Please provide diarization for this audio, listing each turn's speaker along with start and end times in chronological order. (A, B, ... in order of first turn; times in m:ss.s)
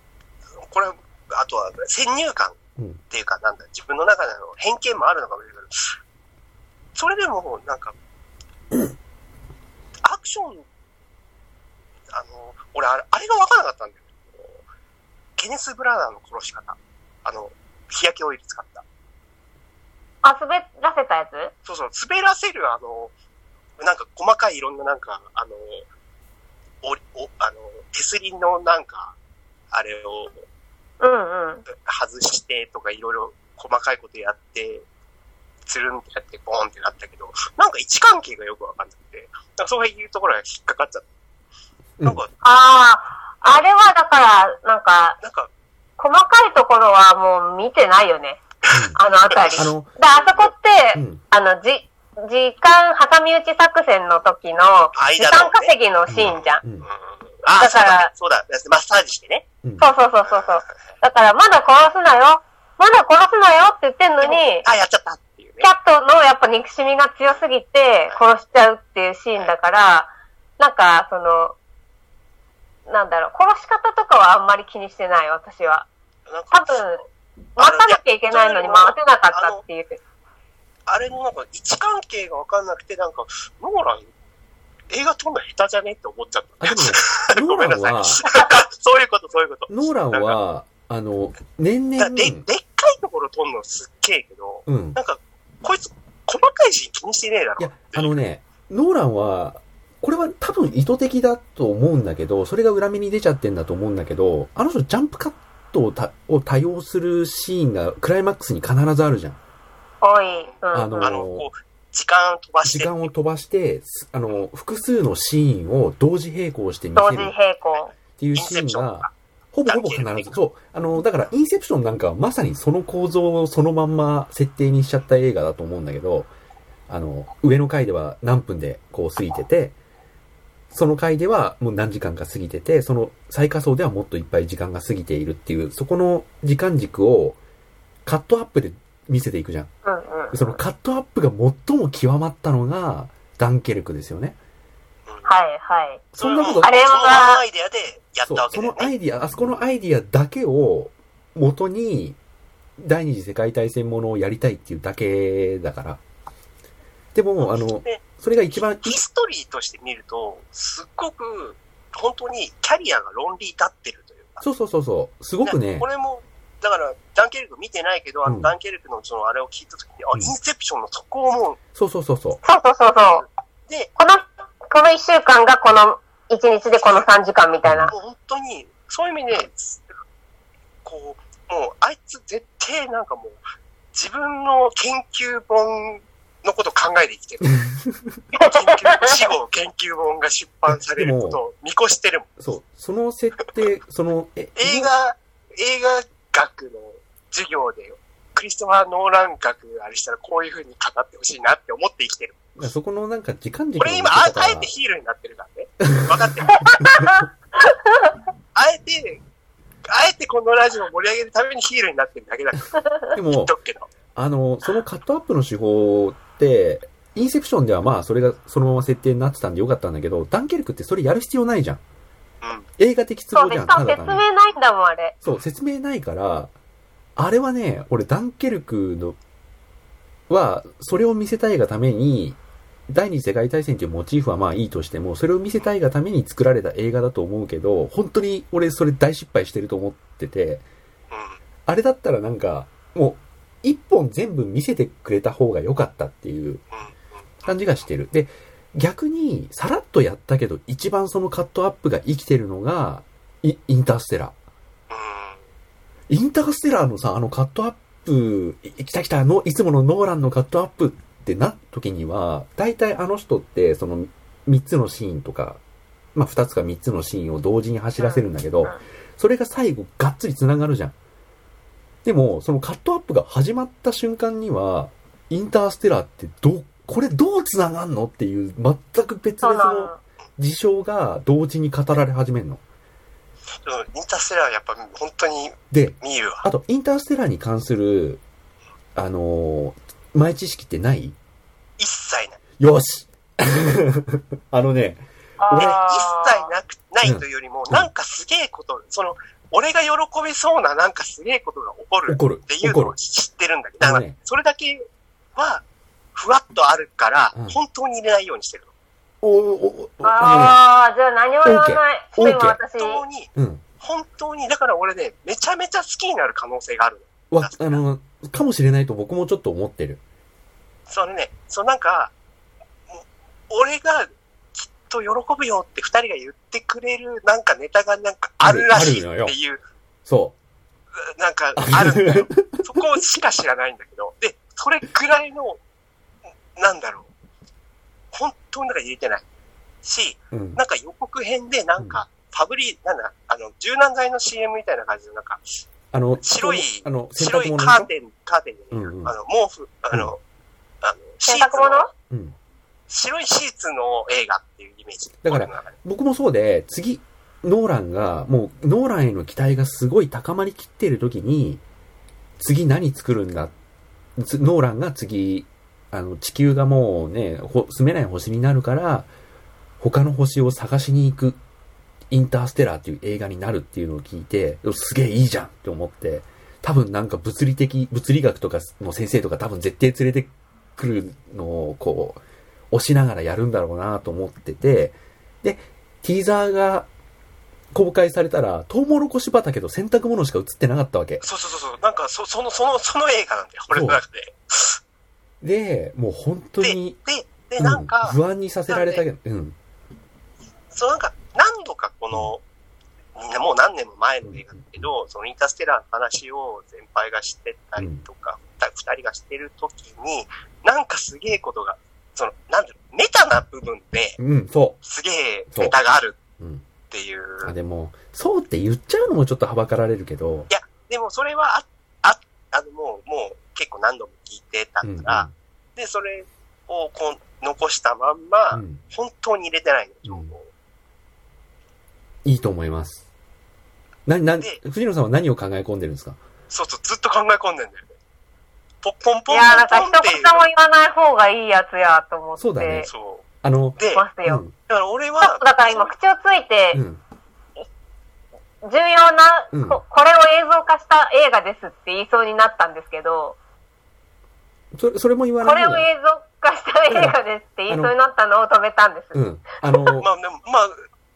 0:00.6-0:02.6 A
0:03.1-0:06.0 A
0:06.9-0:07.9 A
0:10.0-0:10.6 A
0:12.1-0:14.6 A
0:15.4-0:18.8 A
0:20.2-0:21.5 B
0:21.6-0:23.1 A
0:23.8-0:25.8 A
0:26.8-0:29.1 A
0:29.7-0:30.4 A
0:31.0-0:31.6 B
0:31.7-0:34.8 A
0:35.7-0:41.0 A
0:42.0-0:42.3 A
0:42.4-0:45.2 B
0:45.2-0:45.5 A
0:46.0-0:48.4 B
0:48.6-0:50.4 A
0:48.7-0:49.0 C
0:48.9-0:56.6 B
0:49.6-0:49.9 C
0:50.9-0:51.2 C
0:54.9-0:55.7 A
0:56.1-0:56.9 C
0:56.3-0:59.4 A
0:57.5-0:58.1 B
0:59.6-0:59.9 C
0:59.8-1:04.6 B
1:00.2-1:00.6 A
1:04.2-1:05.7 A
1:05.6-1:11.6 B
1:12.9-1:15.9 B
1:16.3-1:16.9 A
1:16.5-1:17.0 B
1:17.6-1:20.0 B
1:17.6-1:19.6 A
1:20.8-1:24.1 A
1:24.9-1:30.4 A
1:26.6-1:28.2 C
1:29.7-1:32.4 C
1:32.0-1:38.2 A
1:34.7-1:35.0 C
1:37.6-1:49.4 C
1:50.0-1:51.2 B
1:50.3-1:52.9 A
1:50.7-1:51.5 C
1:52.6-1:57.3 C
1:57.0-1:57.9 B
1:58.2-2:06.3 C
1:58.3-1:59.1 A
1:59.6-2:00.3 A
2:06.9-2:09.7 C
2:10.7-2:17.4 C
2:18.0-2:19.7 C
2:19.8-2:20.6 B
2:20.3-2:24.4 C
2:25.2-2:26.1 B
2:26.1-2:26.7 C
2:26.2-2:28.9 A
2:26.6-2:27.4 B
2:28.2-2:32.2 C
2:32.8-2:36.0 C
2:37.1-2:39.0 C
2:37.4-2:38.0 A
2:38.8-2:44.4 A
2:44.4-2:45.8 C
2:45.4-2:51.6 A
2:48.2-2:48.5 C
2:51.7-2:52.4 C
2:52.4-2:53.2 B
2:53.0-2:53.9 A
2:54.0-2:57.9 B
2:57.6-2:57.9 C
2:57.9-2:59.9 A
3:00.8-3:03.4 A
3:03.9-3:07.6 A
3:07.6-3:08.2 C
3:08.3-3:12.4 A
3:08.4-3:09.2 B
3:10.9-3:11.4 C
3:12.4-3:14.9 C
3:14.6-3:22.5 A
3:22.6-3:24.7 C
3:23.8-3:26.8 A
3:25.8-3:27.2 C
3:26.5-3:27.2 B
3:28.5-3:29.2 A
3:29.8-3:33.9 A
3:32.8-3:33.1 B
3:33.1-3:33.5 C
3:34.1-3:41.8 C
3:42.4-3:42.7 A
3:42.8-3:44.2 C
3:43.3-3:45.2 B
3:45.2-3:46.5 C
3:47.2-3:49.2 C
3:50.3-4:00.6 C
4:01.1-4:01.4 A
4:01.6-4:06.6 C
4:06.7-4:07.5 A
4:07.4-4:14.3 C
4:14.9-4:15.4 A
4:16.1-4:25.6 C
4:26.1-4:30.9 C
4:28.0-4:28.7 B
4:32.0-4:42.6 C
4:39.4-4:40.0 B
4:43.6-4:46.4 A
4:45.7-4:48.2 C
4:48.9-4:51.2 C
4:51.8-4:52.4 A
4:52.6-4:55.8 C
4:55.4-4:56.5 B
4:55.6-5:05.6 A
4:57.0-4:57.9 C
5:02.1-5:02.9 C
5:03.8-5:04.2 C
5:06.1-5:08.7 A
5:09.2-5:10.6 C
5:10.0-5:13.0 B
5:11.4-5:12.6 C
5:12.7-5:17.8 A
5:13.4-5:13.6 C
5:17.3-5:20.0 C
5:20.9-5:22.1 A
5:22.9-5:29.6 A
5:28.4-5:29.3 C
5:30.0-5:30.3 C
5:31.0-5:35.6 A
5:31.6-5:32.7 C
5:36.6-5:37.1 A
5:38.1-5:39.2 A
5:39.8-5:45.4 A
5:40.3-5:40.6 C
5:45.9-5:47.9 C
5:46.2-5:50.2 A
5:48.7-5:49.1 C
5:50.8-5:51.9 A
5:51.2-5:51.9 B
5:52.1-5:52.4 C
5:52.9-5:55.7 A
5:55.2-6:01.6 C
6:02.4-6:03.5 C
6:04.2-6:09.1 C
6:09.8-6:11.4 C
6:12.1-6:26.9 C
6:27.7-6:31.2 C
6:31.2-6:34.8 A
6:33.7-6:34.0 C
6:35.4-6:37.0 C
6:36.6-6:38.2 A
6:37.6-6:39.6 C
6:38.7-6:39.0 A
6:40.7-6:42.4 A
6:43.1-6:54.2 A
6:44.2-6:44.8 C
6:47.8-6:48.0 C
6:54.2-6:54.8 C
6:54.8-6:56.2 A
6:56.4-6:56.6 C
6:56.9-6:57.5 A
6:57.4-7:00.5 C
7:00.5-7:10.5 A
7:04.8-7:05.3 C
7:08.5-7:08.8 C
7:10.0-7:10.3 C
7:12.2-7:13.0 C
7:14.0-7:16.2 C
7:16.5-7:17.9 A
7:18.8-7:20.5 A
7:19.3-7:22.9 B
7:22.4-7:22.9 C
7:22.9-7:23.2 A
7:23.4-7:24.5 C
7:23.8-7:24.0 A
7:23.9-7:24.4 B
7:24.6-7:25.9 A
7:25.2-7:26.8 B
7:26.7-7:27.0 C
7:28.6-7:33.4 B
7:29.5-7:29.8 C
7:34.7-7:35.9 C
7:35.4-7:39.2 B
7:36.9-7:37.2 C
7:37.7-7:37.9 C
7:39.1-7:40.1 C
7:40.0-7:40.8 A